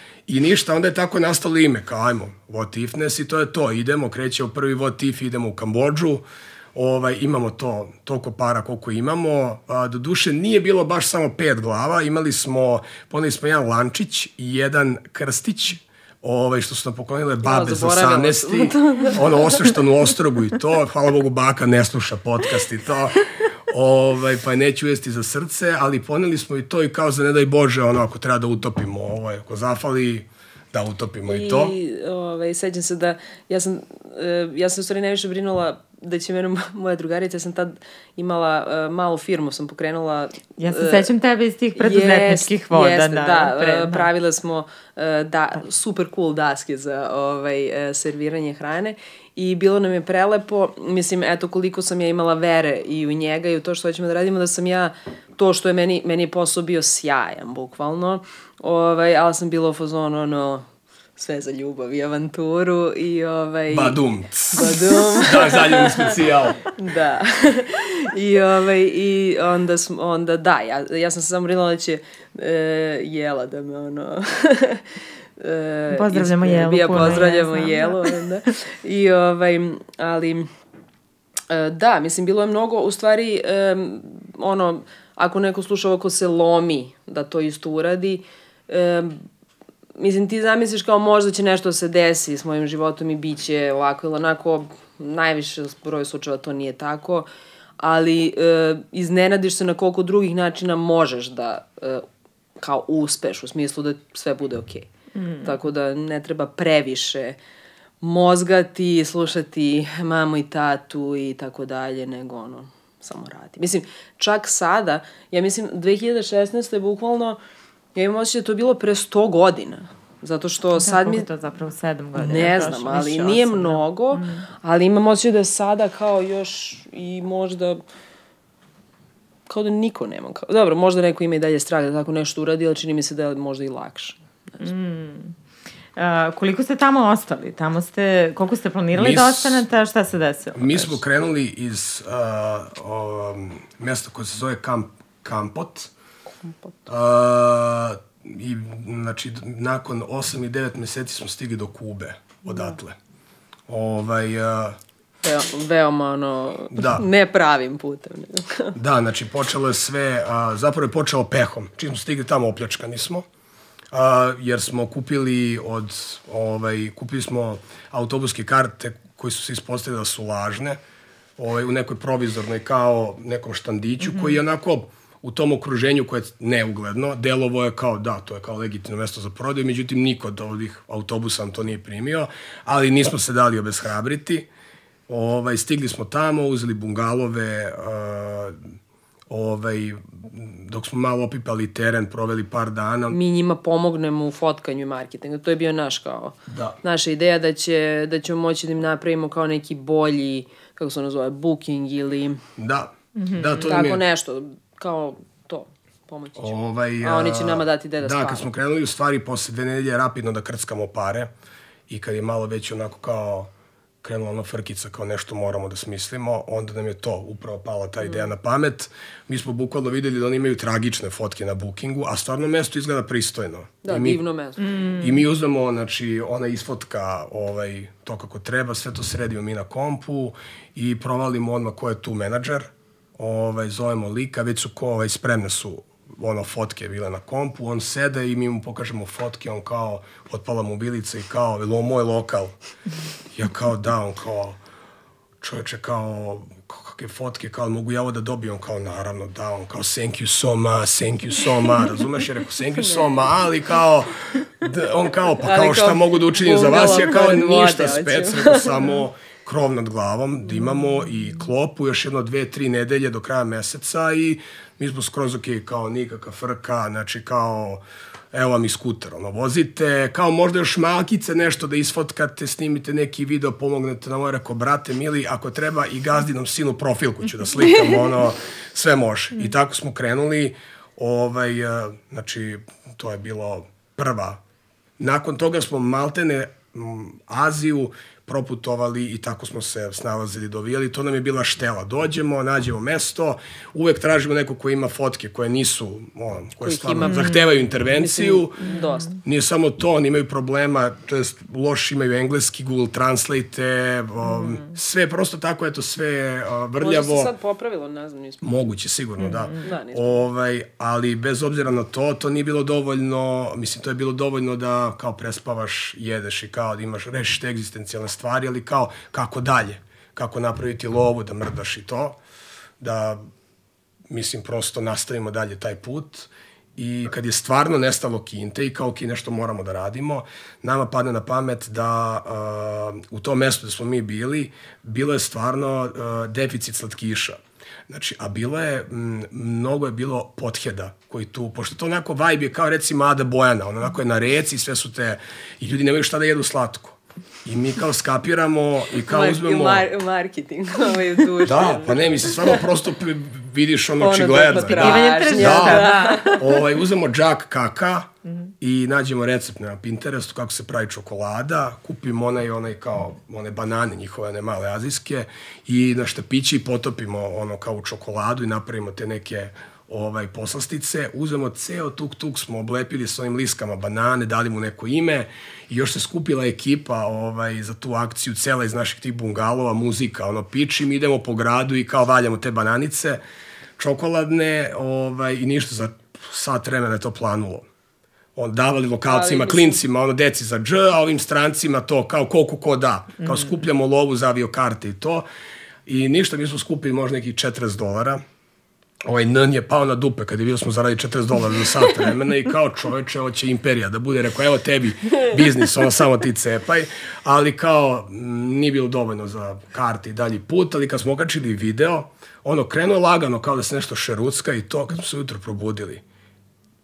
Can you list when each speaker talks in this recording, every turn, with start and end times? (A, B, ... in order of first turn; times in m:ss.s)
0:00.3-0:31.7 A
0:17.4-0:19.8 B
0:31.3-0:41.1 B
0:40.6-0:44.1 C
0:41.7-1:04.0 B
1:03.7-1:06.6 A
1:04.5-1:06.1 B
1:06.7-1:20.5 B
1:15.9-1:18.1 C
1:21.5-1:29.2 B
1:30.0-1:37.3 B
1:37.8-1:42.0 B
1:42.6-1:44.9 B
1:45.1-1:45.6 C
1:45.4-1:47.4 B
1:48.0-1:57.4 B
1:57.9-2:01.3 B
2:00.8-2:04.4 C
2:02.1-2:07.8 B
2:09.5-2:14.7 B
2:14.6-2:15.3 C
2:16.0-2:21.0 C
2:18.9-2:19.6 A
2:20.5-2:25.9 A
2:26.4-2:26.7 B
2:26.9-2:33.0 A
2:33.7-2:34.8 A
2:35.2-2:38.8 B
2:36.7-2:37.0 A
2:38.7-2:43.2 A
2:43.9-2:50.8 A
2:51.4-3:04.5 A
2:54.0-2:54.4 C
3:05.1-3:08.6 A
3:09.3-3:13.2 A
3:13.1-3:22.4 B
3:16.5-3:16.8 A
3:22.6-3:24.0 A
3:23.2-3:23.8 C
3:23.7-3:28.4 B
3:26.4-3:31.3 A
3:31.9-3:33.5 A
3:34.0-3:44.2 A
3:43.8-3:44.8 B
3:44.6-3:45.2 C
3:45.0-4:02.5 A
4:03.3-4:04.6 A
4:05.4-4:44.4 A
4:12.7-4:13.3 B
4:15.4-4:18.9 B
4:37.6-4:37.9 B
4:45.0-5:07.3 A
4:56.6-4:59.2 B
4:57.0-4:57.4 C
4:58.6-4:58.9 C
5:04.2-5:04.6 C
5:06.8-5:08.4 B
5:08.4-5:22.2 A
5:09.2-5:09.6 C
5:09.6-5:10.2 B
5:22.8-5:23.2 A
5:24.1-5:49.9 A
5:49.0-5:52.6 B
5:51.4-6:23.2 A
5:54.0-5:56.6 B
5:54.6-5:56.5 C
6:23.8-6:27.6 A
6:28.3-6:35.2 A
6:29.0-6:29.8 B
6:35.8-6:38.2 A
6:39.0-6:56.0 A